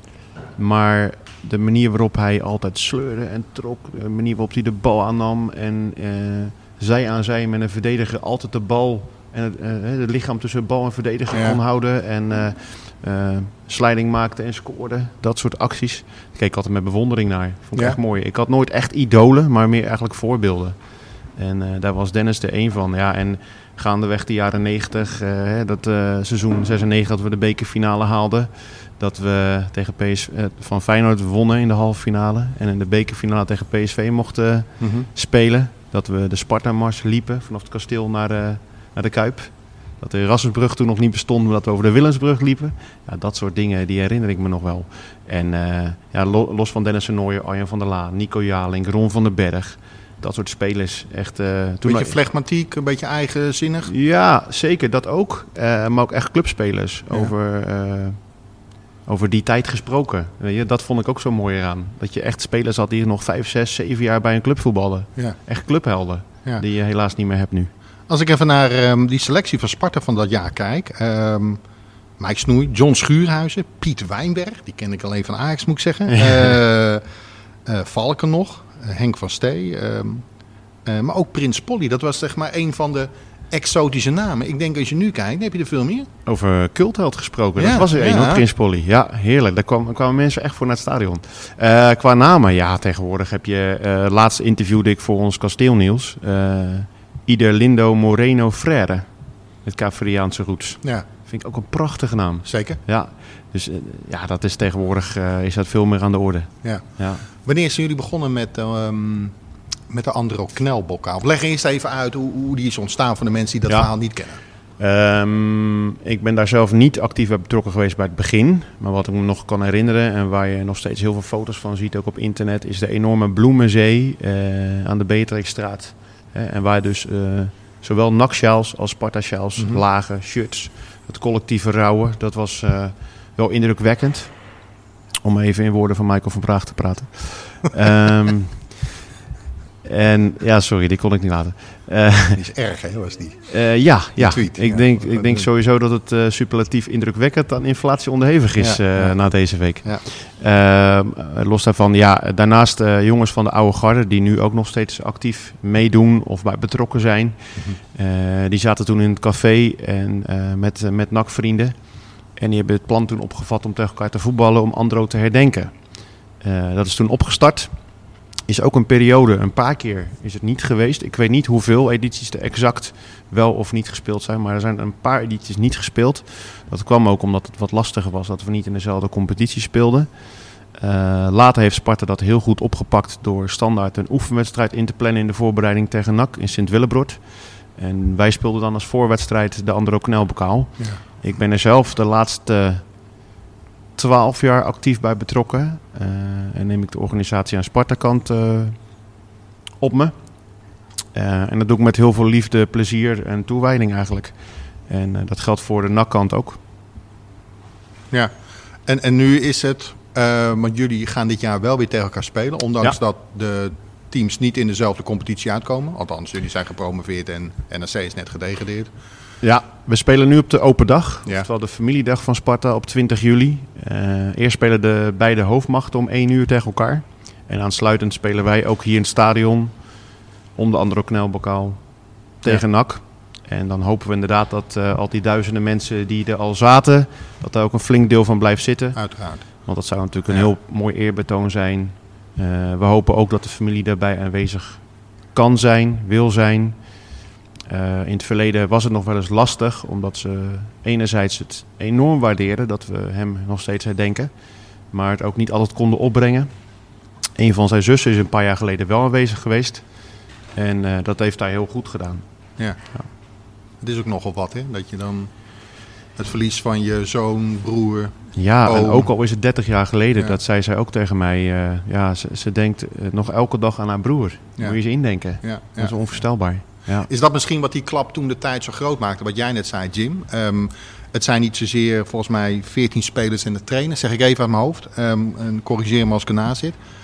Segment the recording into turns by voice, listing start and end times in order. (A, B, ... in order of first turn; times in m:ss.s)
0:00.6-0:52.2 A
0:11.3-0:11.6 B
0:34.8-0:35.1 B
0:51.8-0:53.9 B
0:53.8-1:07.7 A
1:08.1-1:11.6 B
1:12.2-1:17.0 B
1:16.1-1:16.6 A
1:17.7-1:20.3 B
1:20.8-1:26.1 B
1:26.3-1:47.2 A
1:27.6-1:28.4 B
1:42.5-1:42.8 B
1:46.6-1:49.4 B
1:49.9-1:54.4 B
1:54.5-2:18.9 A
2:09.6-2:09.8 B
2:19.8-2:22.4 A
2:22.4-2:25.5 B
2:23.5-3:13.2 A
2:28.6-2:30.0 B
3:14.0-3:19.1 A
3:19.8-3:20.4 A
3:21.1-3:26.6 A
3:28.9-3:38.9 B
3:39.4-4:16.6 A
3:59.0-3:59.7 B
4:17.3-4:23.1 A
4:22.6-4:23.1 B
4:23.8-4:25.3 B
4:26.2-4:29.1 B
4:28.4-4:37.1 A
4:34.6-4:36.3 B
4:37.0-4:46.8 B